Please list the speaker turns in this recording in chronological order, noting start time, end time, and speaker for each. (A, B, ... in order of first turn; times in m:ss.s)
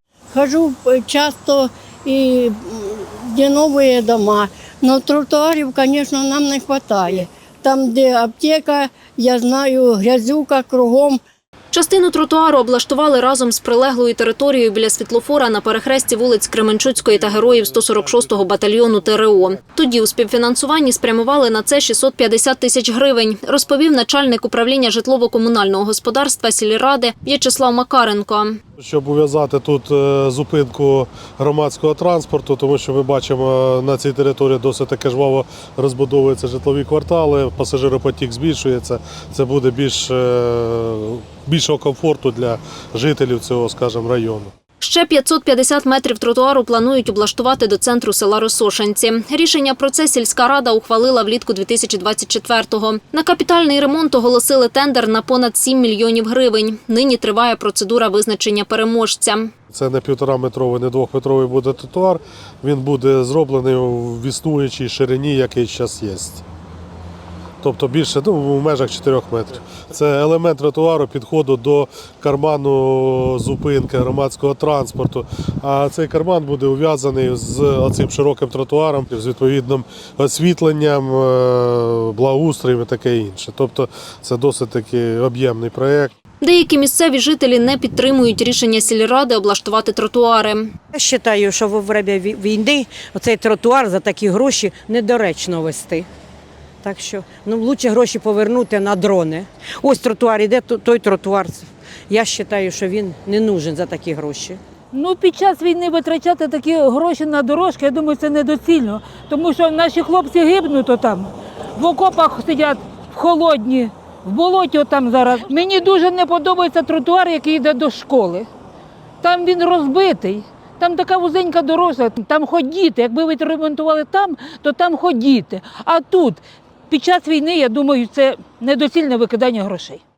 0:00.3-0:11.2 A
0:11.7-0:28.6 B
0:17.3-0:17.6 C
0:28.8-0:44.5 C
0:44.8-0:59.5 B
0:59.7-1:06.4 C
1:07.6-1:26.1 C
1:26.4-1:30.7 B
1:30.9-1:36.1 D
1:36.8-1:44.6 D
1:44.9-1:58.5 E
1:59.2-2:10.0 E